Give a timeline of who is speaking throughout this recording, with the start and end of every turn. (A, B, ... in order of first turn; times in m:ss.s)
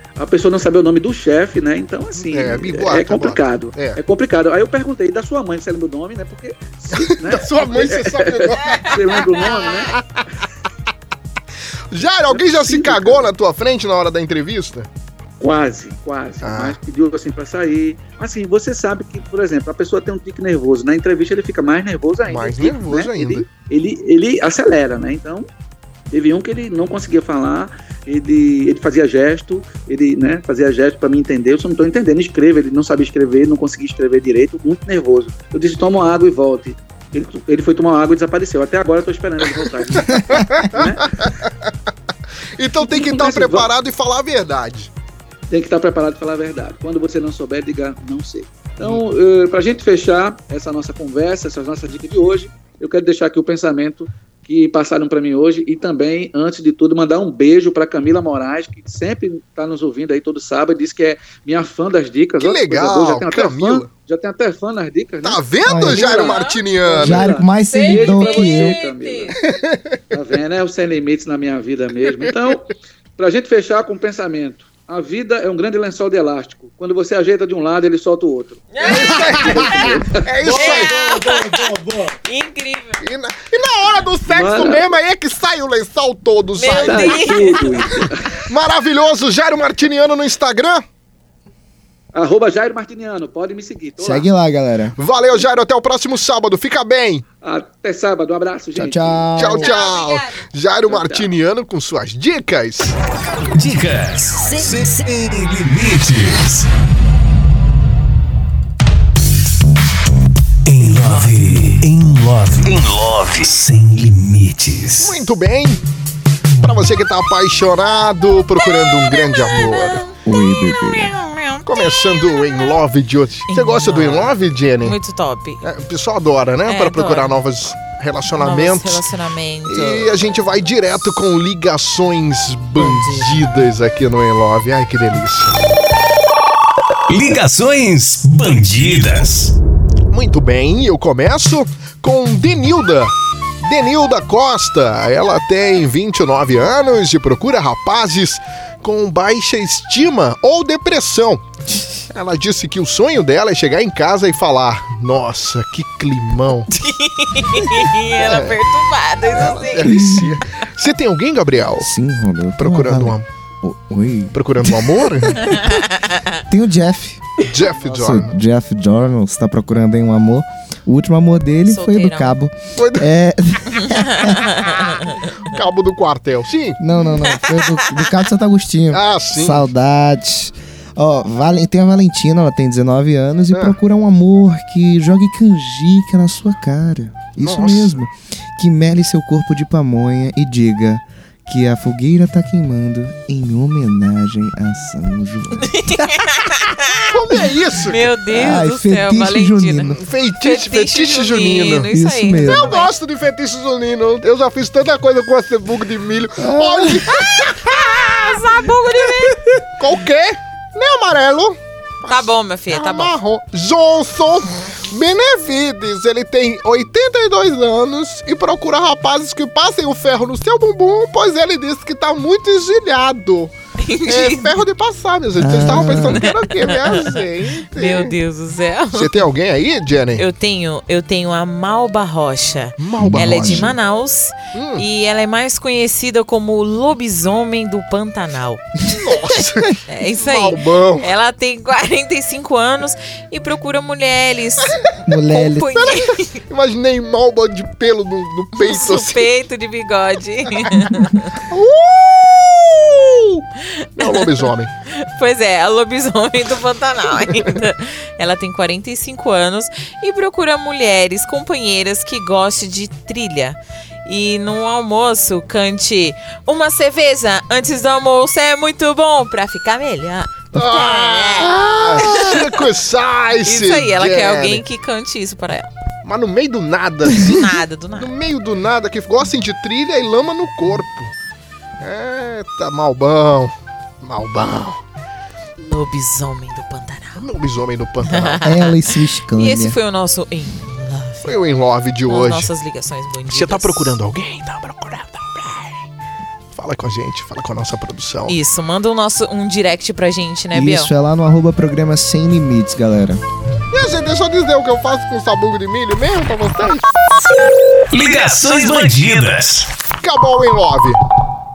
0:00.2-0:09.9 A
0:02.2-0:04.0 B
0:06.9-0:10.0 B
0:09.3-0:09.8 C
0:11.9-0:14.9 B
0:12.3-0:13.3 A
0:15.4-0:25.5 A
0:16.4-0:16.8 B
0:22.2-0:23.5 B
0:26.1-0:41.1 A
0:39.9-0:41.5 B
0:42.6-0:44.9 B
0:42.8-0:43.7 A
0:45.5-1:09.4 A
1:02.4-1:03.9 B
1:05.2-1:07.3 B
1:05.6-1:06.2 D
1:05.9-1:06.6 C
1:07.0-1:08.8 D
1:07.6-1:09.3 C
1:09.5-1:09.8 B
1:10.1-1:20.3 A
1:18.7-1:23.0 C
1:18.8-1:21.3 B
1:23.0-1:27.7 B
1:24.3-1:24.9 A
1:26.6-1:27.9 C
1:26.8-1:28.1 A
1:28.5-1:30.8 B
1:32.1-1:34.2 A
1:34.0-1:35.0 D
1:35.0-1:37.2 B
1:37.4-1:39.4 A
1:38.7-1:39.7 D
1:39.3-1:42.9 B
1:39.4-1:40.3 C
1:40.9-1:41.3 A
1:43.5-1:46.7 E
1:50.6-1:55.2 E
1:55.0-1:55.8 B
1:56.6-2:00.0 B
1:58.6-2:01.9 C
2:00.2-2:01.1 D
2:01.6-2:05.0 B
2:03.5-2:05.6 C
2:05.6-2:09.0 B
2:06.6-2:07.4 C
2:08.3-2:10.2 C
2:09.6-2:15.6 B
2:12.8-2:13.4 C
2:17.1-2:19.5 E
2:20.1-2:31.4 B
2:32.1-2:36.7 B
2:36.7-2:40.1 C
2:38.2-2:38.5 B
2:39.3-2:41.9 B
2:39.8-2:40.4 D
2:41.8-2:45.7 D
2:42.6-2:43.2 B
2:44.3-2:45.6 B
2:45.5-2:46.2 C
2:46.5-2:47.2 D
2:47.5-2:48.4 B
2:47.8-2:54.5 D
2:51.6-2:52.3 C
2:52.8-2:53.1 B
2:53.9-2:55.1 C
2:55.0-2:56.8 B
2:56.8-3:15.9 D
2:57.2-2:57.7 C
2:58.9-2:59.6 B
3:07.4-3:08.0 B
3:15.7-3:22.9 C
3:17.1-3:18.1 B
3:18.3-3:20.0 D
3:19.9-3:21.9 B
3:21.9-3:22.8 D
3:22.4-3:28.4 B
3:26.4-3:27.3 D
3:28.0-3:29.4 C
3:29.2-3:43.5 B
3:32.1-3:33.1 C
3:43.8-3:44.6 C
3:44.0-3:48.1 B
3:45.4-3:46.2 D
3:45.7-3:49.2 C
3:48.9-3:50.2 B
3:50.2-3:58.6 C
3:52.8-3:53.7 B
3:53.0-3:53.7 D
3:54.5-3:54.8 B
3:58.9-4:01.1 B
3:59.9-4:04.8 C
4:05.1-4:05.7 D
4:05.3-4:06.3 C
4:05.7-4:09.2 B
4:08.6-4:11.3 C
4:11.5-4:13.4 B
4:14.0-4:14.7 B
4:14.0-4:14.5 C
4:15.0-4:32.6 C
4:17.2-4:17.5 B
4:30.5-4:34.6 B
4:33.4-4:35.7 C
4:36.0-4:41.1 B
4:37.2-4:38.1 C
4:41.8-4:44.8 B
4:45.6-4:47.2 C
4:47.2-4:48.4 B
4:48.0-4:51.4 C
4:48.4-4:49.8 D
4:51.2-4:52.5 B
4:52.1-4:54.0 C
4:53.3-4:55.8 B
4:56.5-4:58.4 B
4:58.3-5:00.9 C
5:00.5-5:03.2 D
5:03.7-5:06.9 B
5:07.9-5:09.7 E
5:10.0-5:11.0 B